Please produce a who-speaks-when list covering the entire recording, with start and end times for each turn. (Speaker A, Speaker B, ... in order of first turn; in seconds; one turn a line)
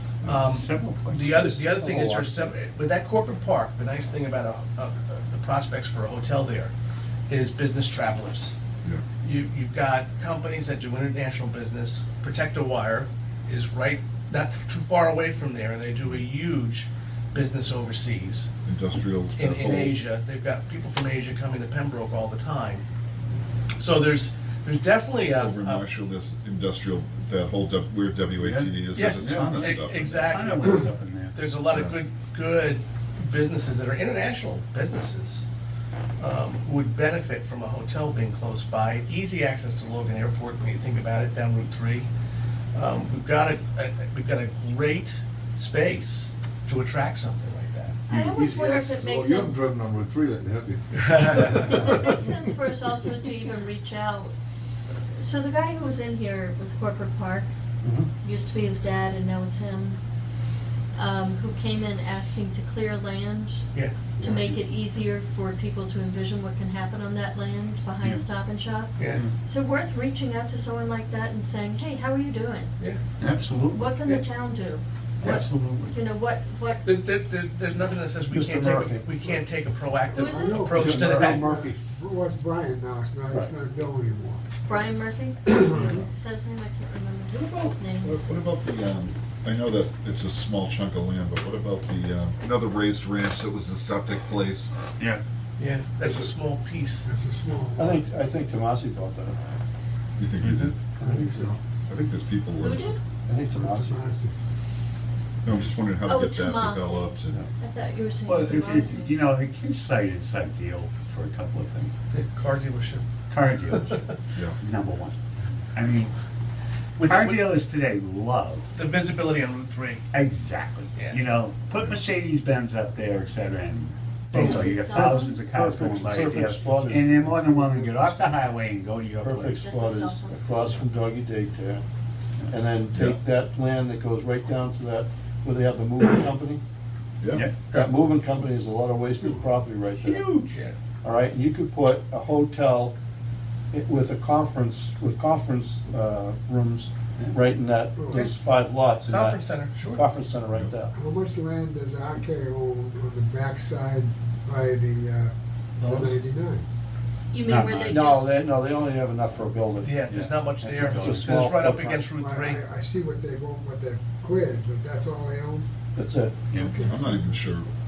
Speaker A: 0.2-6.7
Speaker B: 0.2-1.6
Speaker C: 1.3-2.5
Speaker A: 7.3-8.5
Speaker A: 9.2-18.5
Speaker D: 18.6-20.0
Speaker A: 19.4-22.8
Speaker A: 23.8-25.9
Speaker D: 25.4-30.3
Speaker B: 28.4-31.4
Speaker A: 28.9-35.5
Speaker D: 31.7-32.0
Speaker A: 36.2-42.1
Speaker A: 42.7-48.0
Speaker E: 48.1-49.7
Speaker F: 48.1-52.2
Speaker A: 51.0-51.6
Speaker E: 51.6-54.3
Speaker E: 55.2-57.5
Speaker C: 57.8-58.1
Speaker E: 58.2-60.0
Speaker E: 61.0-63.6
Speaker E: 64.2-72.8
Speaker A: 69.0-69.2
Speaker B: 69.1-69.3
Speaker B: 73.2-73.9
Speaker E: 73.7-76.8
Speaker B: 75.2-76.0
Speaker A: 76.8-81.5
Speaker C: 78.3-79.4
Speaker G: 80.1-84.4
Speaker E: 80.2-80.8
Speaker C: 80.7-81.6
Speaker F: 81.0-81.7
Speaker E: 84.7-88.3
Speaker G: 85.5-86.0
Speaker B: 85.7-86.0
Speaker G: 88.1-88.3
Speaker D: 88.2-94.7
Speaker A: 95.6-97.1
Speaker C: 96.0-96.3
Speaker G: 97.1-98.2
Speaker C: 97.8-99.4
Speaker D: 100.2-100.8
Speaker B: 100.4-100.7
Speaker C: 101.0-101.5
Speaker G: 101.0-101.6
Speaker D: 101.8-102.9
Speaker E: 102.6-103.0
Speaker C: 103.3-104.2
Speaker G: 103.5-104.3
Speaker D: 105.4-107.4
Speaker E: 106.0-109.1
Speaker B: 108.3-111.9
Speaker A: 112.1-113.0
Speaker B: 113.3-115.2
Speaker B: 115.7-116.1
Speaker A: 117.0-117.5
Speaker B: 117.0-118.7
Speaker A: 118.7-120.0
Speaker B: 120.1-129.7
Speaker A: 120.9-121.2
Speaker C: 124.3-128.2
Speaker E: 124.4-125.5
Speaker C: 129.2-131.8
Speaker E: 129.6-130.4
Speaker C: 132.5-136.6
Speaker D: 132.9-133.2
Speaker D: 137.2-137.5
Speaker B: 137.3-137.6
Speaker C: 137.7-140.3
Speaker B: 140.0-140.6
Speaker C: 141.0-142.9
Speaker C: 143.7-150.9
Speaker G: 148.0-148.3
Speaker A: 149.1-150.0
Speaker G: 150.9-156.6
Speaker A: 155.8-156.2
Speaker E: 157.3-158.3
Speaker B: 157.4-158.1
Speaker C: 157.8-162.1
Speaker A: 159.8-162.6
Speaker B: 160.1-161.3
Speaker G: 162.2-165.7
Speaker C: 165.9-166.3
Speaker G: 166.6-167.0
Speaker D: 166.6-167.7